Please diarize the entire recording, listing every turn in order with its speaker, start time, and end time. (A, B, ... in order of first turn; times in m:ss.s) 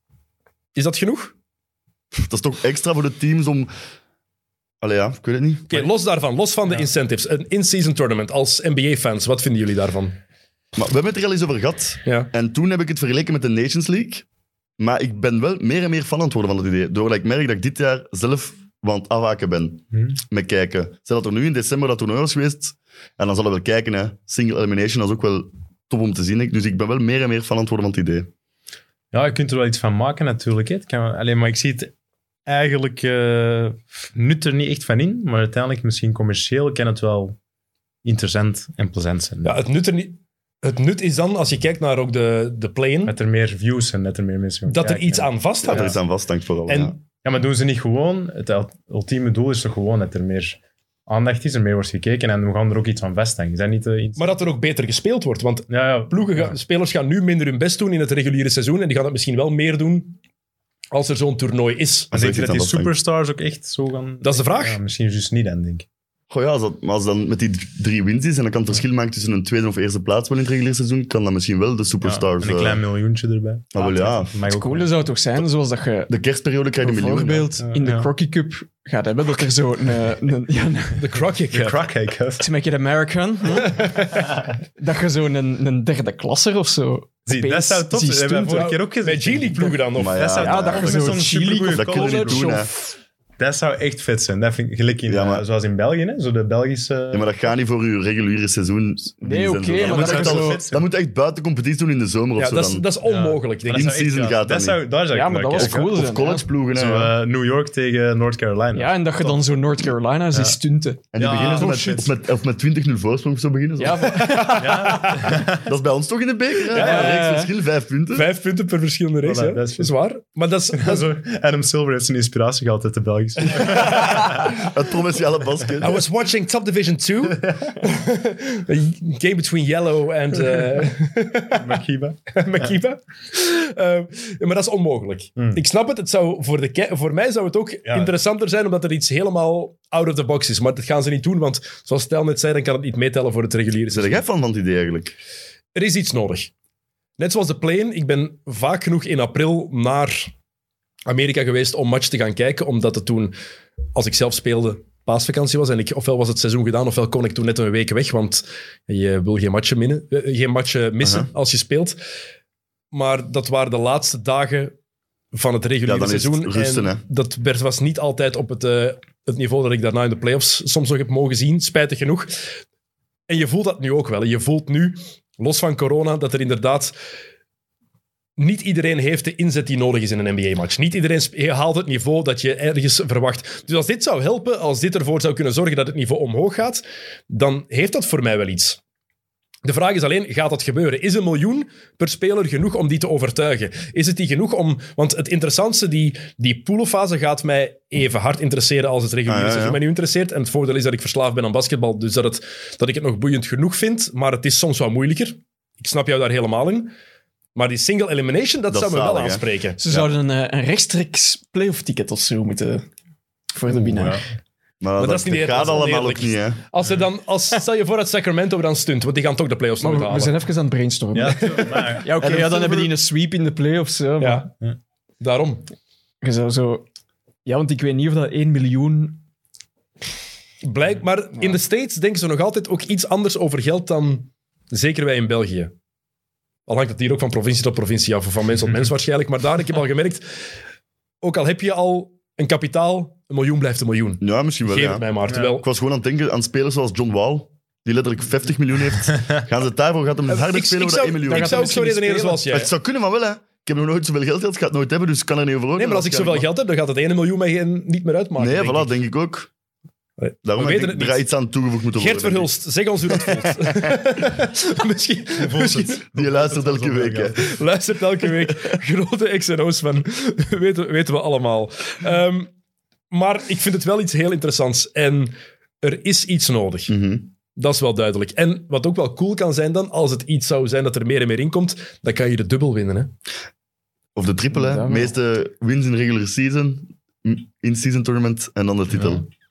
0:00.8-0:01.3 A
0:02.1-0:03.7 B
0:04.8-0:05.9 B
0:05.7-0:10.2 A
0:10.8-0:14.2 B
0:14.8-0:28.3 B
0:29.1-0:31.9 C
0:32.5-0:37.4 C
0:38.0-0:39.6 C
0:39.4-0:43.2 A
0:43.0-0:46.0 C
0:44.7-0:46.0 A
0:45.6-0:47.0 B
0:46.7-0:47.0 A
0:47.2-0:54.4 C
0:54.2-1:00.2 A
0:55.7-0:56.6 C
1:00.9-1:02.1 A
1:02.1-1:02.9 B
1:02.1-1:05.9 C
1:04.2-1:04.8 A
1:06.3-1:12.8 B
1:12.0-1:14.9 C
1:13.7-1:14.3 B
1:14.5-1:16.1 D
1:16.1-1:17.5 B
1:16.8-1:21.0 D
1:17.6-1:18.1 C
1:21.0-1:21.8 A
1:21.5-1:22.5 C
1:22.4-1:28.7 D
1:23.6-1:24.0 A
1:24.1-1:24.5 C
1:27.3-1:32.7 C
1:28.5-1:30.3 A
1:30.0-1:32.7 B
1:30.4-1:33.0 D
1:33.4-1:37.3 C
1:35.1-1:35.4 B
1:37.1-1:42.9 B
1:39.2-1:40.6 D
1:39.8-1:40.9 C
1:42.4-1:44.0 A
1:43.0-1:46.0 C
1:43.7-1:44.9 B
1:45.1-1:46.5 D
1:45.6-1:47.1 B
1:46.7-1:49.4 C
1:48.7-1:52.0 D
1:50.3-1:50.6 C
1:51.1-1:52.1 C
1:51.1-1:54.3 B
1:53.8-1:55.2 D
1:54.3-1:55.2 A
1:54.6-1:55.6 C
1:55.6-1:58.3 B
1:56.7-1:57.2 A
1:56.7-1:57.5 D
1:58.1-2:01.1 A
1:59.2-1:59.9 C
2:00.7-2:04.5 C
2:04.0-2:06.1 B
2:05.8-2:11.8 A
2:07.3-2:07.8 C
2:11.5-2:12.7 C
2:12.4-2:24.2 A
2:17.8-2:18.2 C
2:23.9-2:25.2 B
2:25.8-2:26.5 A
2:27.2-2:30.3 A
2:31.1-2:33.4 A
2:34.0-2:42.0 A
2:41.0-2:41.3 B
2:42.9-2:44.8 A
2:45.3-2:52.3 A
2:45.9-2:47.0 B
2:53.3-2:57.0 A
2:58.4-3:08.8 A
3:09.6-3:26.9 A
3:19.3-3:19.8 B
3:27.6-3:29.8 A
3:28.7-3:30.1 B
3:29.8-3:32.9 D
3:33.5-3:34.2 D
3:33.7-3:34.2 C
3:34.8-3:36.6 B
3:35.0-3:40.4 A
3:39.8-3:44.5 D
3:41.1-3:42.9 C
3:44.2-3:44.5 A
3:45.2-3:45.7 A
3:46.2-3:46.9 D
3:47.4-3:49.2 D
3:50.6-3:55.7 A
3:56.7-4:00.3 A
4:01.2-4:05.6 A
4:04.2-4:11.8 B
4:10.3-4:12.7 A
4:11.3-4:12.4 D
4:12.4-4:16.5 B
4:15.8-4:18.9 A
4:18.4-4:19.5 B
4:20.2-4:21.2 A
4:20.4-4:22.5 B
4:22.0-4:26.0 A
4:25.4-4:27.5 C
4:26.1-4:27.5 B
4:27.4-4:32.5 A
4:33.1-4:36.9 A
4:36.9-4:37.3 B
4:37.6-4:43.1 A
4:44.2-4:49.3 B
4:44.5-4:45.2 D
4:48.9-4:49.2 C